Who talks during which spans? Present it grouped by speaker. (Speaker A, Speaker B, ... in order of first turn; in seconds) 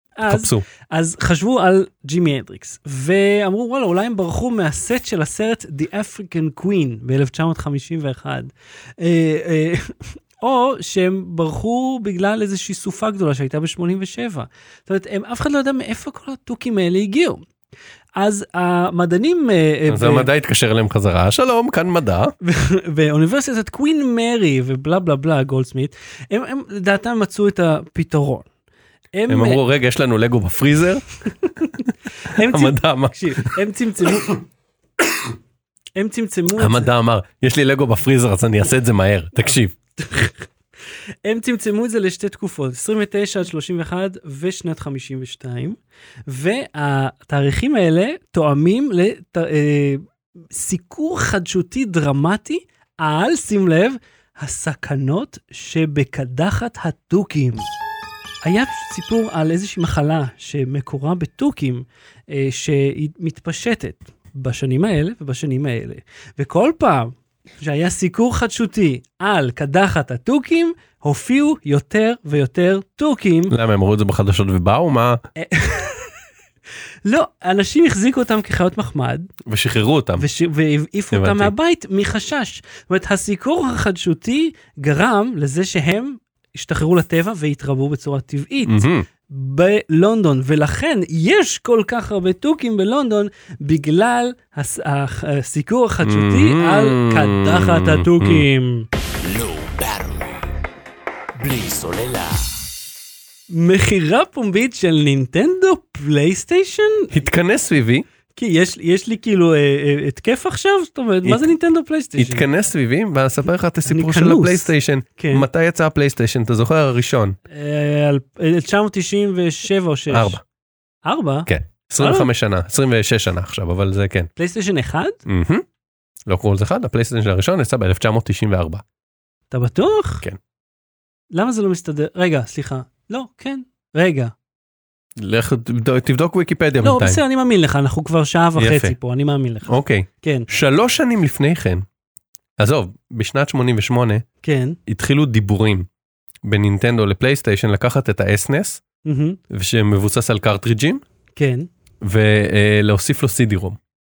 Speaker A: 0.2-17.4, 18.1-20.3, 22.4-28.5, 29.1-29.6, 31.4-34.4, 36.0-36.9, 39.5-40.5, 41.2-57.6, 58.4-73.5, 75.4-76.2, 77.0-79.3, 80.2-98.9, 103.5-107.1, 108.3-112.5, 113.8-115.5, 117.5-120.4, 121.0-122.3, 124.4-125.2, 129.5-130.2, 131.3-134.3, 136.8-140.5, 144.4-144.8, 149.0-149.4, 151.3-151.7
Speaker B: 0.3-0.6, 19.9-22.3, 29.3-31.0, 32.3-33.5, 36.6-39.7, 73.5-75.2, 79.5-80.2, 81.1-81.5, 88.7-89.0, 96.0-98.5, 107.1-108.0, 111.2-111.5, 112.2-117.4, 120.1-120.4, 121.5-124.3, 125.2-125.6, 126.3-128.8, 135.2-137.2, 138.6-138.9, 139.7-141.8, 142.6-144.2, 144.9-145.9, 146.4-148.8, 149.5-151.0, 152.0-153.8
Speaker C: 99.0-100.5, 101.3-102.6